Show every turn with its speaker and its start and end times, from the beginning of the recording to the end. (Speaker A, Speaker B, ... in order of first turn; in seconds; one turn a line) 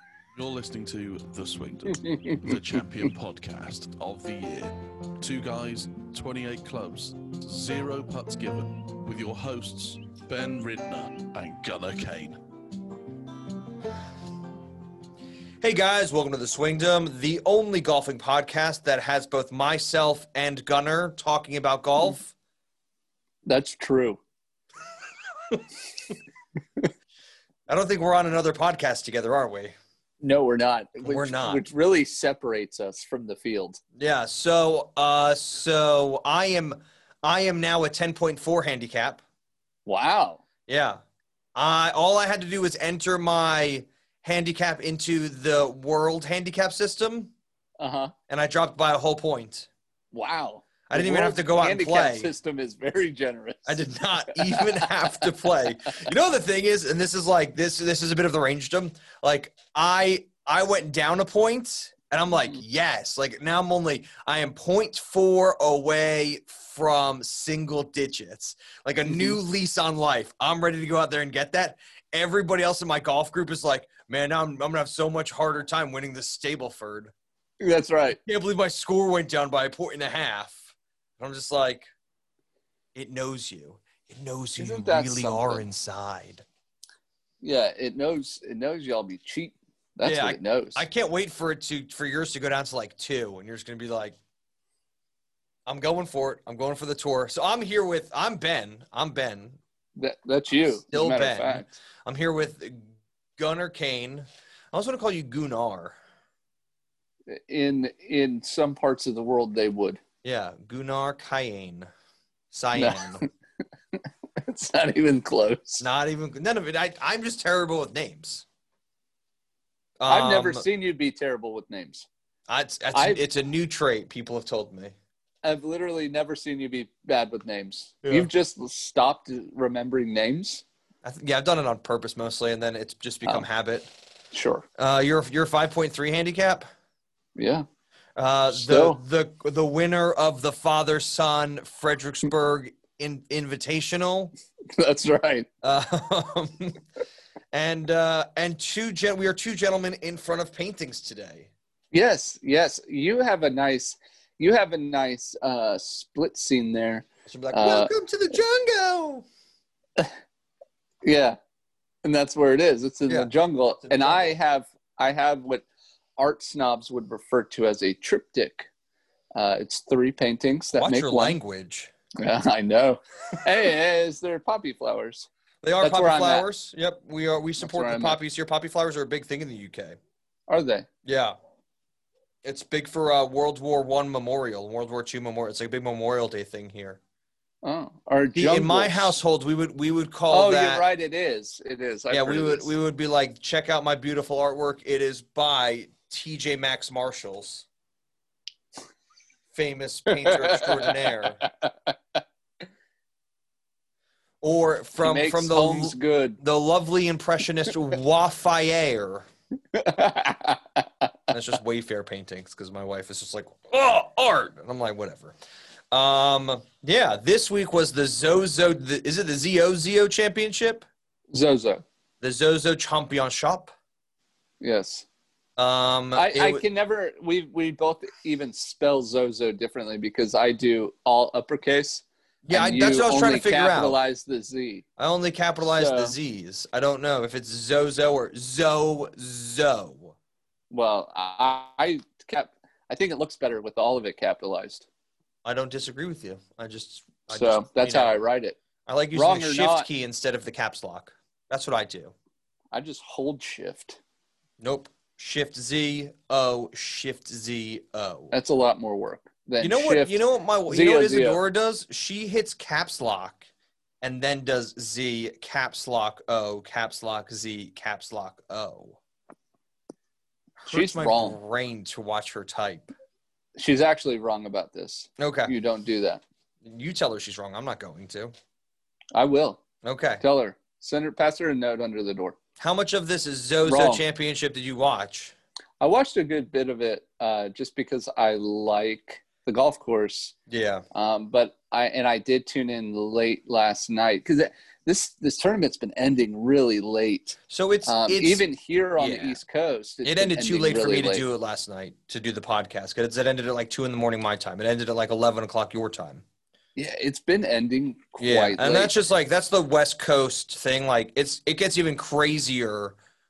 Speaker A: 0.3-12.4
Speaker B: 2.0-2.5
Speaker C: 15.6-22.3
Speaker B: 23.4-24.2
Speaker C: 27.7-29.8
Speaker B: 30.2-33.8
Speaker C: 31.0-31.6
Speaker C: 34.0-39.2
Speaker B: 39.9-40.4
Speaker C: 40.7-41.0
Speaker C: 41.5-47.3
Speaker B: 47.8-48.1
Speaker C: 48.3-49.7
Speaker B: 50.1-55.9
Speaker C: 50.9-52.3
Speaker C: 53.7-77.1
Speaker B: 69.0-69.4
Speaker B: 77.6-78.2
Speaker C: 78.2-81.9
Speaker C: 82.9-86.4
Speaker B: 84.6-85.6
Speaker B: 87.4-90.8
Speaker C: 90.0-94.2
Speaker C: 95.7-99.6
Speaker B: 100.0-101.8
Speaker C: 100.9-106.0
Speaker B: 107.3-110.0
Speaker C: 110.2-111.9
Speaker C: 112.5-113.2
Speaker B: 112.7-113.2
Speaker B: 114.0-115.8
Speaker C: 115.8-118.4
Speaker C: 120.0-120.6
Speaker B: 120.1-122.1
Speaker C: 122.5-124.9
Speaker B: 122.9-123.2
Speaker B: 125.4-130.6
Speaker C: 128.0-128.3
Speaker C: 131.0-133.9
Speaker B: 134.3-134.6
Speaker C: 134.8-136.7
Speaker B: 137.3-137.7
Speaker C: 138.2-144.3
Speaker B: 138.5-139.0
Speaker B: 144.7-145.5
Speaker C: 145.6-146.8
Speaker C: 147.5-151.5
Speaker B: 151.9-157.9
Speaker C: 157.2-159.2
Speaker B: 161.0-161.4
Speaker B: 162.0-165.7
Speaker C: 163.1-164.3
Speaker B: 166.2-168.7
Speaker B: 169.3-171.4
Speaker C: 170.8-171.9
Speaker B: 172.2-175.3
Speaker C: 175.6-180.0
Speaker B: 175.8-176.5
Speaker B: 177.6-178.2
Speaker B: 180.5-180.9
Speaker C: 181.0-181.3
Speaker C: 182.4-187.0
Speaker B: 187.6-189.2
Speaker C: 188.3-190.8
Speaker B: 190.3-192.7
Speaker C: 192.1-197.7
Speaker C: 199.5-201.4
Speaker B: 200.1-201.9
Speaker C: 204.4-209.3
Speaker B: 205.0-206.4
Speaker B: 209.7-211.1
Speaker C: 211.3-215.3
Speaker C: 215.9-220.8
Speaker B: 221.3-221.8
Speaker C: 222.2-223.7
Speaker B: 224.6-225.1
Speaker C: 225.6-226.6
Speaker B: 226.1-234.8
Speaker C: 232.4-234.0
Speaker C: 235.0-240.1
Speaker B: 235.7-236.1
Speaker B: 240.7-244.8
Speaker C: 245.4-248.2
Speaker B: 247.3-248.6
Speaker C: 248.8-252.1
Speaker B: 249.1-249.9
Speaker B: 252.7-254.0
Speaker C: 254.6-258.3
Speaker B: 258.3-261.4
Speaker C: 259.6-263.5
Speaker C: 264.0-269.0
Speaker C: 270.6-272.9
Speaker B: 270.6-271.4
Speaker B: 273.6-276.2
Speaker C: 275.2-275.5
Speaker C: 276.6-278.3
Speaker B: 279.1-279.6
Speaker C: 279.8-280.2
Speaker B: 280.2-282.4
Speaker C: 282.6-285.3
Speaker B: 283.6-284.0
Speaker B: 285.8-290.3
Speaker C: 290.5-290.8
Speaker B: 290.9-301.2
Speaker C: 297.5-298.4
Speaker C: 299.0-299.4
Speaker C: 300.0-306.2
Speaker B: 306.8-308.9
Speaker C: 308.2-312.9